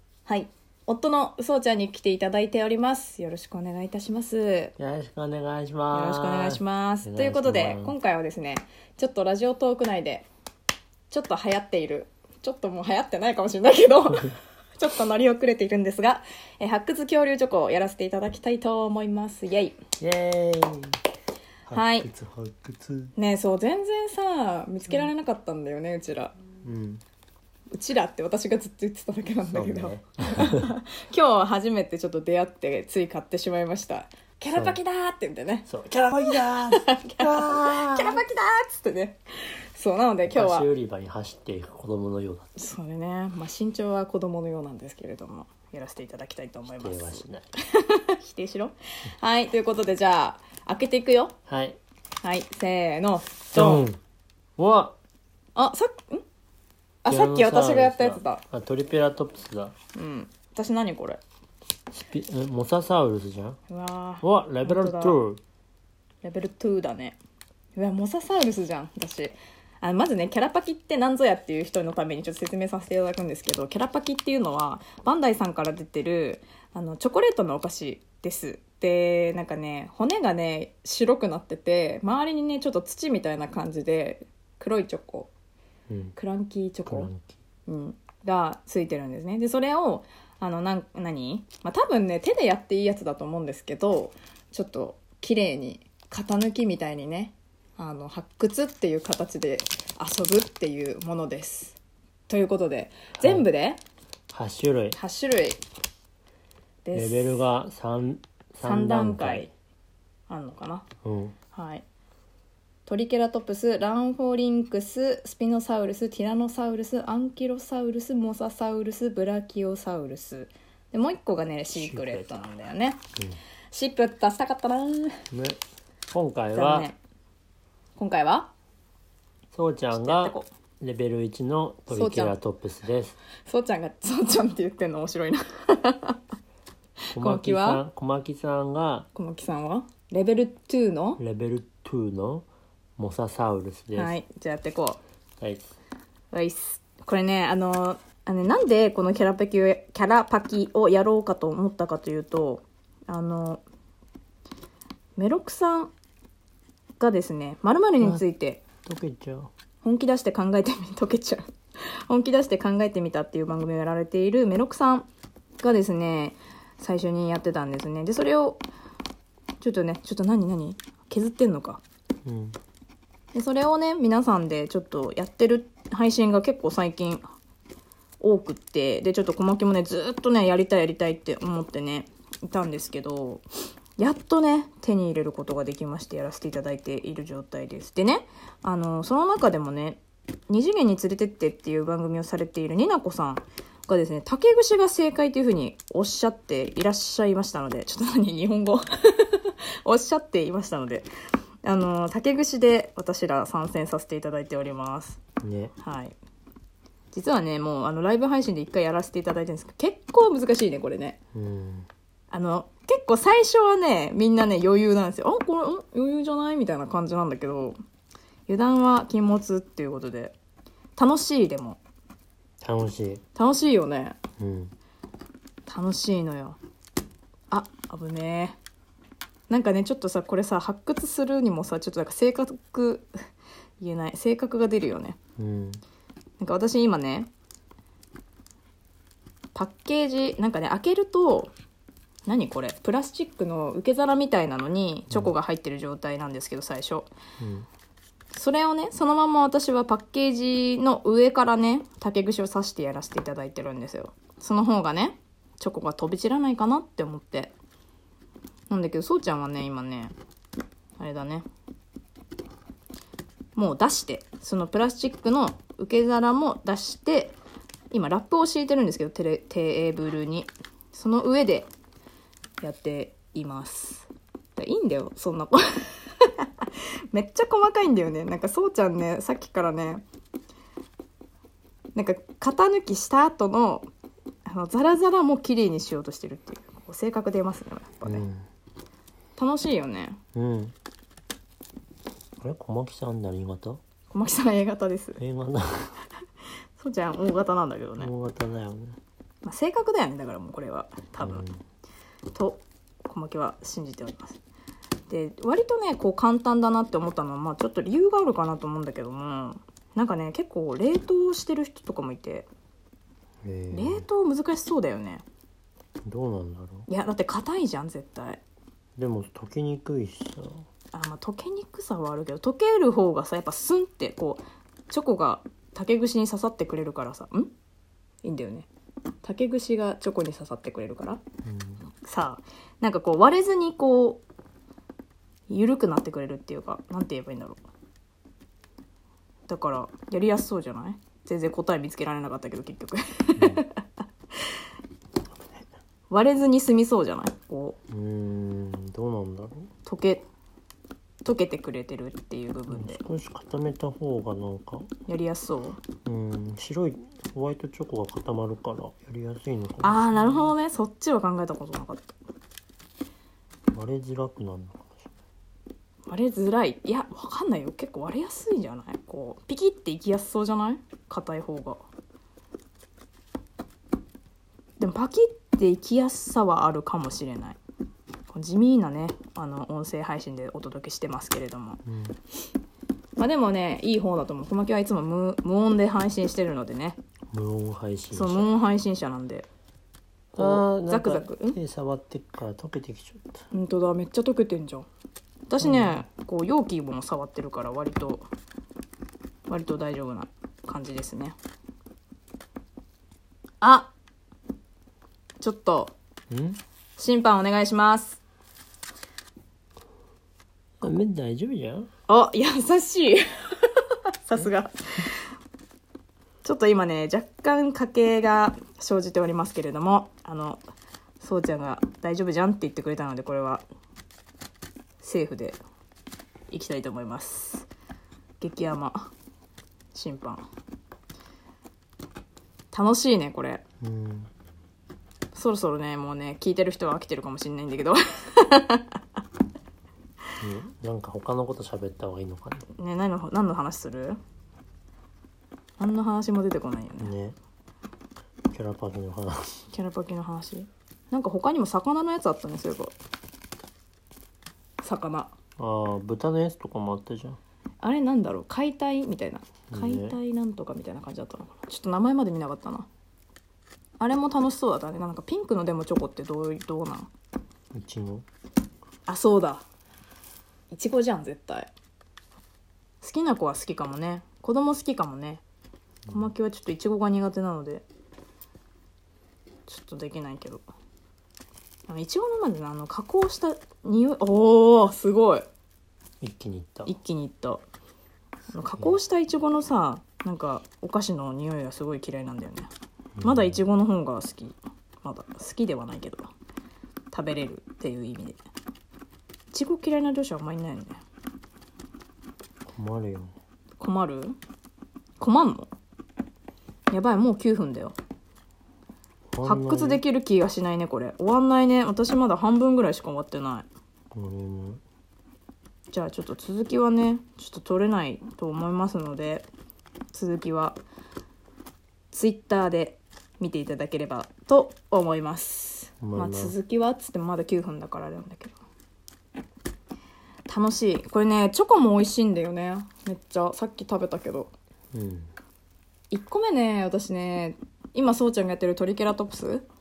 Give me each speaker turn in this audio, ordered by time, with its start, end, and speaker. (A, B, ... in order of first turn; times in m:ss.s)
0:00.2-0:04.7 A
0:04.8-0:07.9 B
0:05.9-0:10.3 A
0:11.1-0:19.8 A
0:20.0-0:21.0 B
0:21.7-0:23.1 B
0:21.7-0:22.1 A
0:23.2-0:26.3 A
0:26.6-0:27.0 B
0:27.7-0:39.2 A
0:29.4-0:30.7 B
0:34.5-0:34.8 B
0:35.7-0:38.2 B
0:39.7-0:40.7 A
0:40.3-0:42.5 B
0:42.6-0:51.3 A
0:46.8-0:47.5 B
0:51.5-0:51.8 B
0:52.2-0:53.8 A
0:53.5-0:54.0 B
0:54.6-0:54.9 B
0:55.6-0:56.2 A
0:57.0-0:58.4 A
0:57.0-0:59.8 B
0:59.9-1:01.2 A
1:01.9-1:03.6 B
1:03.7-1:05.2 A
1:04.2-1:05.4 B
1:06.2-1:07.2 A
1:07.8-1:25.3 A
1:25.9-1:26.2 B
1:26.2-1:27.1 A
1:26.9-1:27.4 B
1:27.7-1:43.8 A
1:43.2-1:43.5 B
1:44.3-1:45.0 B
1:44.9-1:45.6 A
1:46.8-1:47.4 A
1:46.9-1:49.5 B
1:48.6-1:49.5 A
1:50.3-1:50.9 A
1:51.0-1:51.4 B
1:51.5-1:51.8 A
1:52.8-2:03.0 A
2:01.7-2:02.3 B
2:03.7-2:05.2 A
2:05.3-2:06.9 B
2:06.5-2:07.0 A
2:08.0-2:08.5 A
2:09.5-2:13.2 B
2:09.9-2:10.5 A
2:11.9-2:12.4 A
2:13.4-2:16.2 A
2:17.1-2:17.8 A
2:17.1-2:19.1 B
2:19.1-2:21.2 A
2:21.2-2:24.1 B
2:23.9-2:25.0 A
2:25.4-2:25.8 B
2:26.3-2:33.6 A
2:35.2-2:35.9 A
2:37.0-2:38.6 A
2:38.8-2:39.5 B
2:39.8-2:41.4 A
2:42.1-2:45.1 A
2:45.6-2:48.6 A
2:49.6-2:51.8 A
2:52.2-2:52.6 B
2:53.3-2:57.2 A
2:58.2-3:03.4 A
3:04.0-3:21.1 A
3:21.6-3:25.2 A
3:25.4-3:25.7 B
3:25.8-3:26.1 A
3:27.1-3:31.2 A
3:31.3-3:31.9 B
3:32.3-3:37.7 A
3:38.5-3:40.4 A
3:41.0-3:41.8 A
3:42.6-3:43.2 B
3:43.4-3:44.2 A
3:44.4-3:44.7 B
3:45.7-3:46.6 A
3:47.5-3:48.6 A
3:49.5-3:53.1 A
3:53.8-3:55.2 A
3:55.4-3:55.8 B
3:56.4-3:57.3 A
3:59.5-4:01.5 A
4:02.2-4:07.1 A
4:07.4-4:07.7 B
4:08.3-4:17.5 A
4:18.7-4:20.1 A
4:21.0-4:21.4 A
4:23.5-4:27.4 A
4:27.9-4:31.7 A
4:32.6-4:40.0 A
4:41.9-4:43.9 A
4:44.4-4:48.2 A
4:48.0-4:48.5 B
4:49.4-4:50.2 A
4:50.3-4:50.8 B
4:52.4-4:53.8 B
4:54.1-4:55.2 A
4:55.2-4:56.0 B
4:56.8-4:58.1 A
4:58.0-4:59.0 B
4:59.4-5:01.4 A
5:01.2-5:01.6 B
5:02.3-5:04.4 A
5:05.1-5:12.5 A
5:13.4-5:14.0 B
5:13.7-5:15.2 A
5:16.0-5:16.9 B
5:16.9-5:18.4 A
5:19.0-5:20.6 B
5:20.9-5:27.5 A
5:28.2-5:28.7 A
5:29.2-5:31.2 A
5:31.4-5:31.9 B
5:31.9-5:34.2 A
5:35.5-5:37.6 A
5:39.5-5:43.8 A
5:43.4-5:43.6 B
5:46.1-5:47.8 A
5:47.9-5:49.7 B
5:49.8-5:50.2 A
5:51.2-5:53.0 A
5:52.7-5:54.9 B
5:55.1-5:55.8 A
5:56.0-6:00.5 B
5:59.8-6:02.2 A
6:03.7-6:05.1 B
6:06.1-6:11.8 A
6:14.8-6:17.6 A
6:18.3-6:21.8 A
6:21.8-6:22.2 B
6:23.2-6:27.0 A
6:27.3-6:28.5 B
6:28.1-6:29.5 A
6:30.3-6:33.4 B
6:30.4-6:31.6 A
6:33.5-6:34.9 A
6:35.5-6:38.3 A
6:35.6-6:36.0 B
6:39.5-6:41.4 A
6:43.6-6:43.9 A
6:45.4-6:45.9 A
6:46.3-6:46.6 B
6:47.0-6:48.2 A
6:50.8-6:51.9 B
6:52.1-6:55.2 A
6:56.4-7:00.6 A
7:01.2-7:03.6 A
7:05.0-7:05.6 A
7:06.5-7:07.7 A
7:08.4-7:09.1 A
7:09.9-7:10.4 A
7:12.7-7:13.6 A
7:13.8-7:14.3 B
7:15.3-7:19.0 A
7:20.4-7:22.7 B
7:22.7-7:24.2 A
7:25.8-7:27.1 A
7:27.0-7:27.4 B
7:28.5-7:29.6 B
7:29.7-7:32.9 A
7:34.8-7:35.3 A
7:35.6-7:37.4 B
7:37.8-7:42.9 A
7:39.7-7:40.2 B
7:44.0-7:47.1 A
7:47.7-7:48.2 B
7:49.1-7:49.6 A
7:50.7-7:51.7 A
7:53.0-7:55.4 A
7:56.1-7:57.8 A
7:59.7-8:00.6 A
8:01.9-8:05.4 A
8:06.2-8:06.9 B
8:06.8-8:07.6 A
8:08.5-8:09.0 B
8:08.5-8:12.7 A
8:13.2-8:13.6 B
8:13.2-8:16.3 A
8:17.1-8:18.4 A
8:19.5-8:21.0 A
8:22.8-8:23.3 B
8:23.8-8:24.4 A
8:25.2-8:25.7 A
8:26.9-8:28.0 A
8:29.3-8:30.0 B
8:29.4-8:33.6 A
8:34.1-8:34.8 B
8:35.9-8:39.5 A
8:40.1-8:40.8 A
8:42.1-8:48.5 A
8:46.0-8:46.6 B
8:50.5-8:54.5 A
8:54.9-8:55.3 B
8:56.1-8:59.6 A